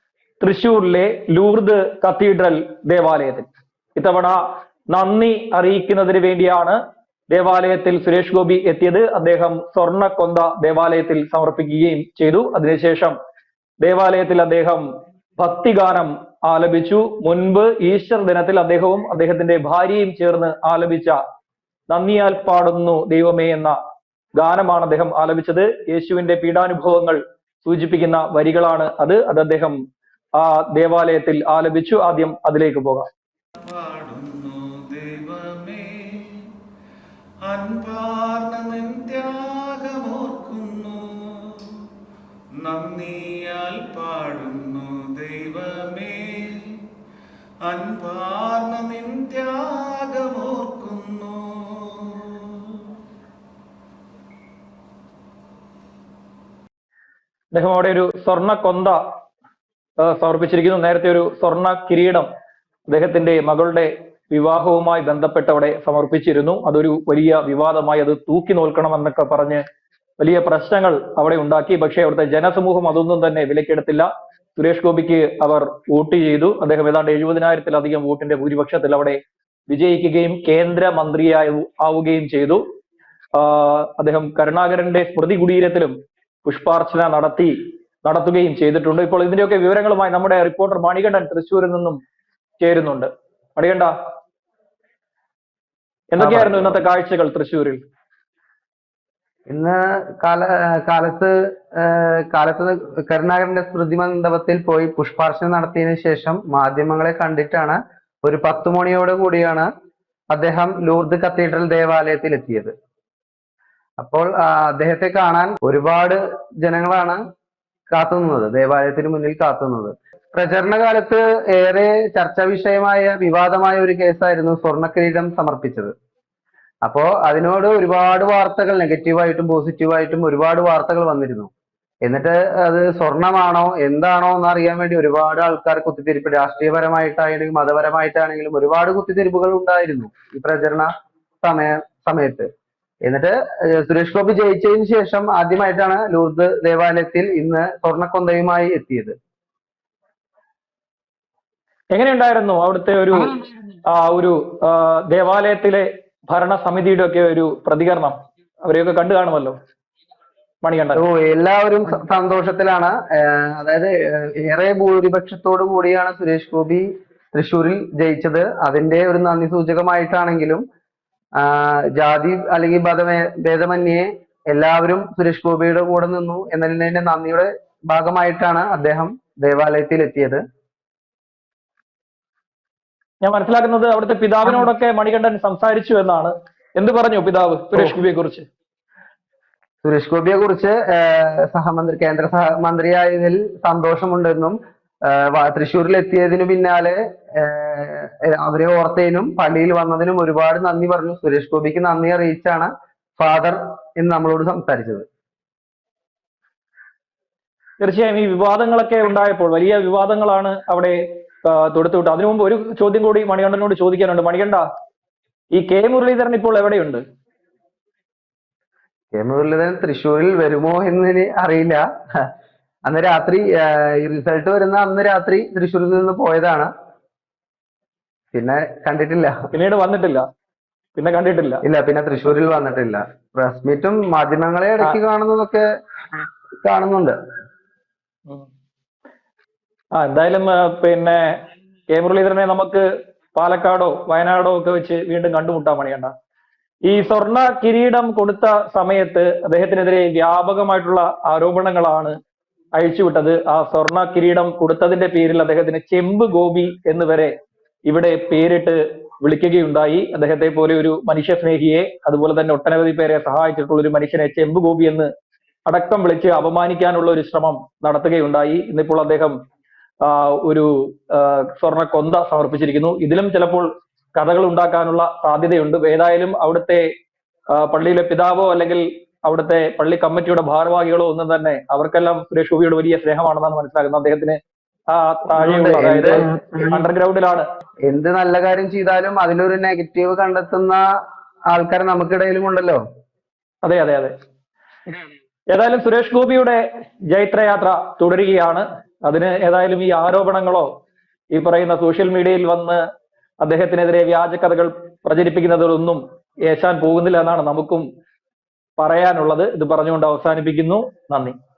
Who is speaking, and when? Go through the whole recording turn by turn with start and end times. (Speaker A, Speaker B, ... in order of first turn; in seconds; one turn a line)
Speaker A: 0.4-4.4
Speaker A: 4.9-6.8
Speaker A: 7.3-13.2
Speaker A: 13.8-14.8
Speaker A: 15.4-21.2
Speaker A: 21.9-23.7
Speaker A: 24.4-29.8
Speaker A: 30.4-33.1
Speaker B: 33.6-36.5
Speaker B: 37.4-41.8
Speaker B: 42.6-46.8
Speaker B: 47.6-52.9
Speaker A: 57.5-59.0
Speaker A: 60.0-62.3
Speaker A: 62.9-69.6
Speaker A: 70.2-82.6
Speaker A: 83.3-92.0
Speaker A: 92.6-93.9
Speaker A: 96.1-97.8
Speaker C: 96.2-96.8
Speaker C: 99.5-109.7
Speaker C: 110.3-112.7
Speaker C: 114.0-117.2
Speaker C: 117.9-125.9
Speaker C: 126.8-131.5
Speaker C: 132.0-140.9
Speaker C: 141.4-142.5
Speaker C: 143.0-149.1
Speaker A: 151.9-153.3
Speaker A: 153.8-159.6
Speaker A: 160.6-161.0
Speaker C: 160.9-170.6
Speaker C: 171.4-180.4
Speaker A: 183.2-188.4
Speaker C: 189.8-194.6
Speaker C: 195.1-205.1
Speaker A: 207.8-214.6
Speaker A: 215.5-217.0
Speaker C: 219.1-222.3
Speaker C: 222.8-226.7
Speaker C: 228.3-229.5
Speaker A: 229.5-230.2
Speaker A: 230.9-231.6
Speaker C: 231.6-235.7
Speaker C: 236.2-237.1
Speaker A: 239.9-241.3
Speaker A: 241.9-242.8
Speaker A: 243.3-246.1
Speaker A: 246.9-252.1
Speaker A: 252.8-257.3
Speaker A: 257.9-265.1
Speaker A: 265.7-269.4
Speaker A: 270.0-276.8
Speaker A: 277.5-284.4
Speaker A: 284.9-287.4
Speaker C: 285.4-286.7
Speaker C: 287.9-290.8
Speaker C: 291.5-292.8
Speaker A: 293.6-294.1
Speaker A: 295.5-300.7
Speaker A: 301.3-302.8
Speaker A: 303.4-307.8
Speaker A: 308.8-311.4